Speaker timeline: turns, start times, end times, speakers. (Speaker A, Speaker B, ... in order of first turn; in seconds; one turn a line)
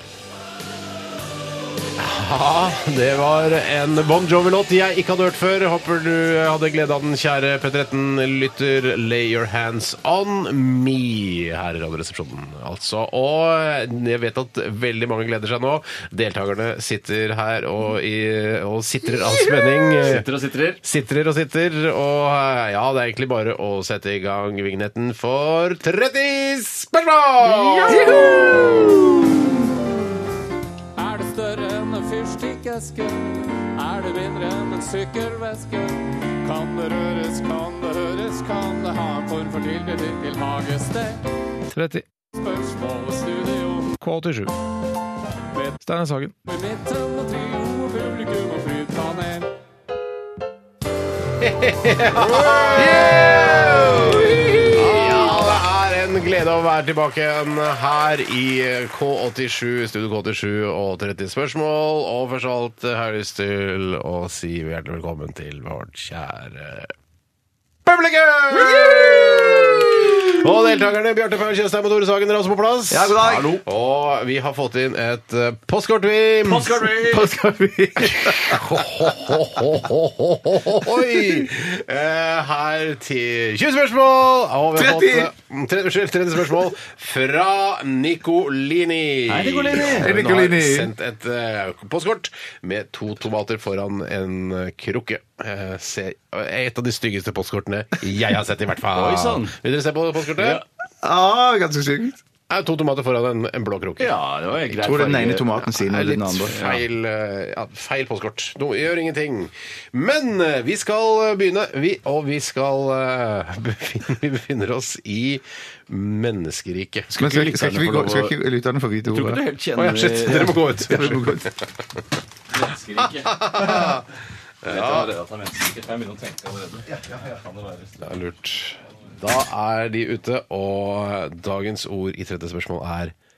Speaker A: 2.0-20.3
Speaker B: 20.0-20.8
Speaker A: 20.8-28.1
Speaker B: 27.4-28.7
Speaker C: 27.9-29.6
Speaker D: 31.0-41.2
Speaker D: 42.3-44.0
Speaker A: 44.0-44.5
Speaker A: 45.9-46.3
Speaker D: 46.5-49.5
Speaker A: 51.4-66.9
Speaker A: 67.8-100.6
Speaker C: 68.7-70.1
Speaker C: 72.9-73.5
Speaker B: 73.2-73.6
Speaker B: 76.4-77.3
Speaker C: 78.0-78.6
Speaker C: 84.8-85.3
Speaker B: 89.3-90.2
Speaker C: 89.8-90.9
Speaker B: 98.9-99.5
Speaker B: 100.4-100.6
Speaker C: 101.0-102.2
Speaker A: 102.5-104.2
Speaker B: 104.0-105.6
Speaker A: 104.7-105.1
Speaker C: 104.8-106.6
Speaker A: 105.7-117.2
Speaker B: 106.5-106.8
Speaker C: 117.1-119.4
Speaker B: 117.2-118.3
Speaker B: 119.1-120.6
Speaker A: 119.8-121.5
Speaker C: 120.9-121.5
Speaker B: 122.5-123.8
Speaker A: 123.1-124.0
Speaker A: 124.6-125.1
Speaker B: 124.6-128.1
Speaker A: 128.0-133.1